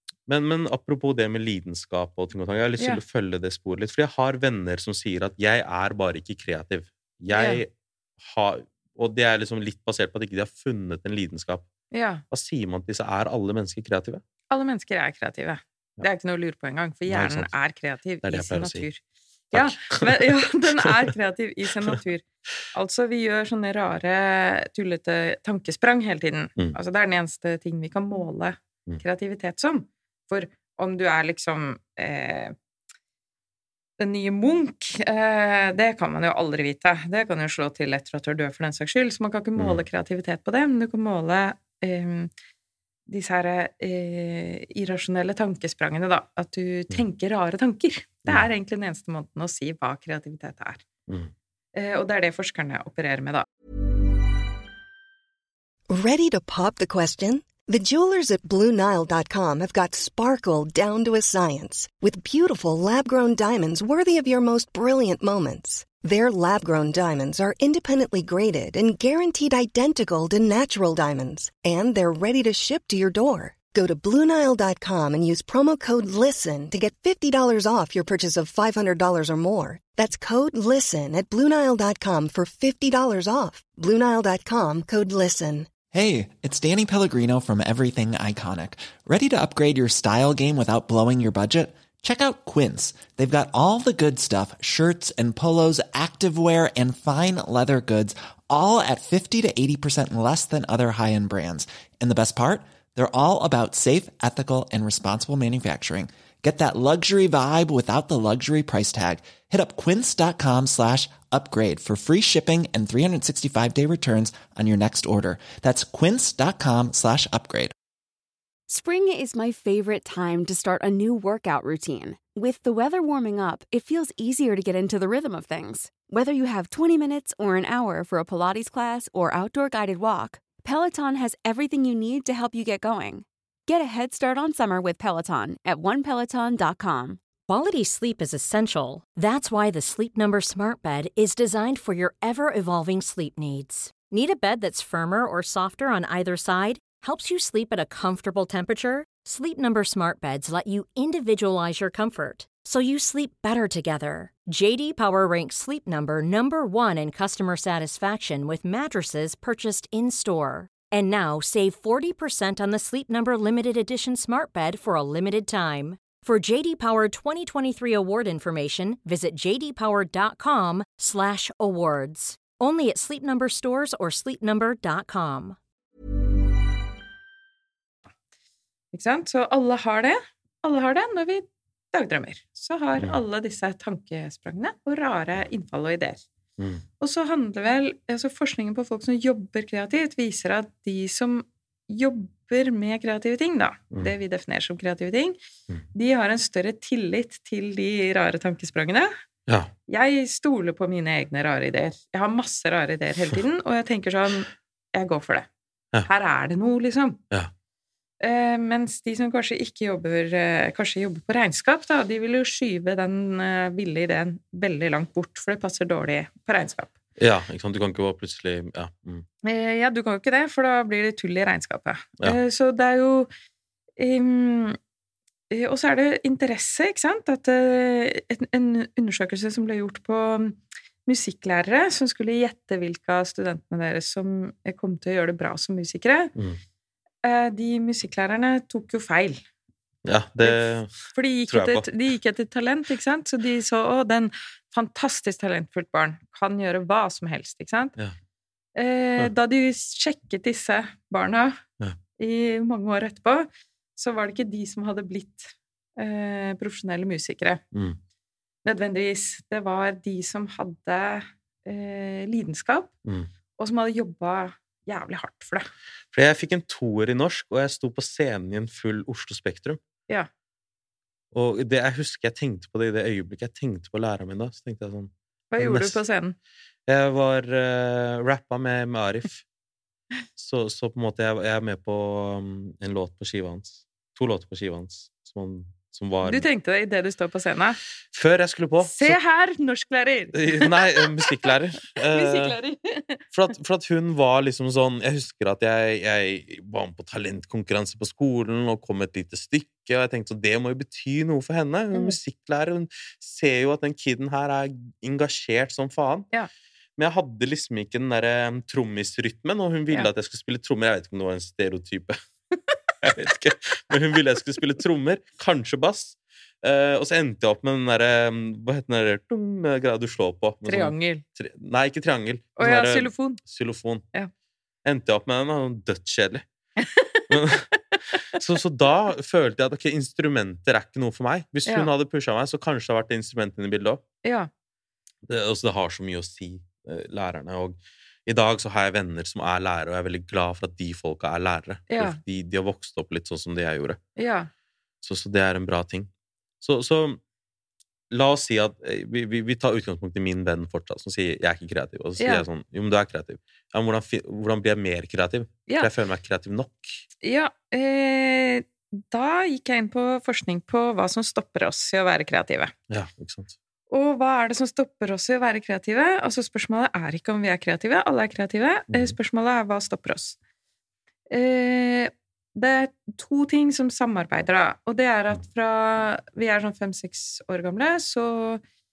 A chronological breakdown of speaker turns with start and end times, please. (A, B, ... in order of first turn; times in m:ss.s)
0:00.3-0:11.7 A
0:07.3-0:07.6 B
0:11.9-0:12.2 B
0:12.3-0:14.2 A
0:14.5-0:32.6 B
0:17.1-0:17.5 A
0:18.2-0:18.9 A
0:19.5-0:21.1 A
0:34.0-0:42.3 B
0:39.6-0:39.8 A
0:43.1-0:50.8 B
0:51.8-0:53.5 B
0:55.9-1:25.7 C
1:25.9-1:57.7 D
1:58.7-2:17.2 E
2:17.5-2:55.6 F
2:58.9-3:06.2 B
3:06.6-3:06.8 A
3:07.0-3:15.4 B
3:15.9-3:19.1 B
3:19.5-3:19.7 A
3:19.9-3:25.5 B
3:26.0-3:27.2 B
3:28.2-3:36.9 B
3:37.2-3:39.3 A
3:39.4-3:43.3 B
3:44.0-3:44.8 B
3:45.5-3:56.3 B
3:57.2-3:59.4 B
4:00.0-4:01.9 A
4:00.4-4:08.0 B
4:08.8-4:11.6 B
4:12.2-4:17.6 B
4:17.7-4:18.0 A
4:18.6-4:22.9 B
4:23.6-4:25.7 B
4:26.1-4:29.8 A
4:31.3-4:36.0 A
4:35.5-4:36.4 B
4:36.9-4:39.4 A
4:40.4-4:46.5 A
4:46.2-4:47.8 B
4:48.1-4:49.2 A
4:48.8-4:53.2 B
4:50.3-4:52.6 A
4:53.3-5:06.3 A
5:07.0-5:12.2 A
5:13.0-5:24.0 A
5:20.6-5:21.2 B
5:22.6-5:23.4 B
5:24.8-5:26.4 A
5:26.8-5:27.3 B
5:27.3-5:27.7 A
5:28.3-5:34.0 A
5:34.2-5:34.5 B
5:35.3-5:44.0 A
5:41.9-5:42.2 B
5:44.2-5:44.5 B
5:45.0-5:46.1 A
5:46.6-5:47.2 A
5:48.1-5:57.0 A
5:52.2-5:52.4 B
5:57.2-6:02.7 B
6:02.9-6:03.6 A
6:03.9-6:10.4 B
6:11.3-6:18.6 B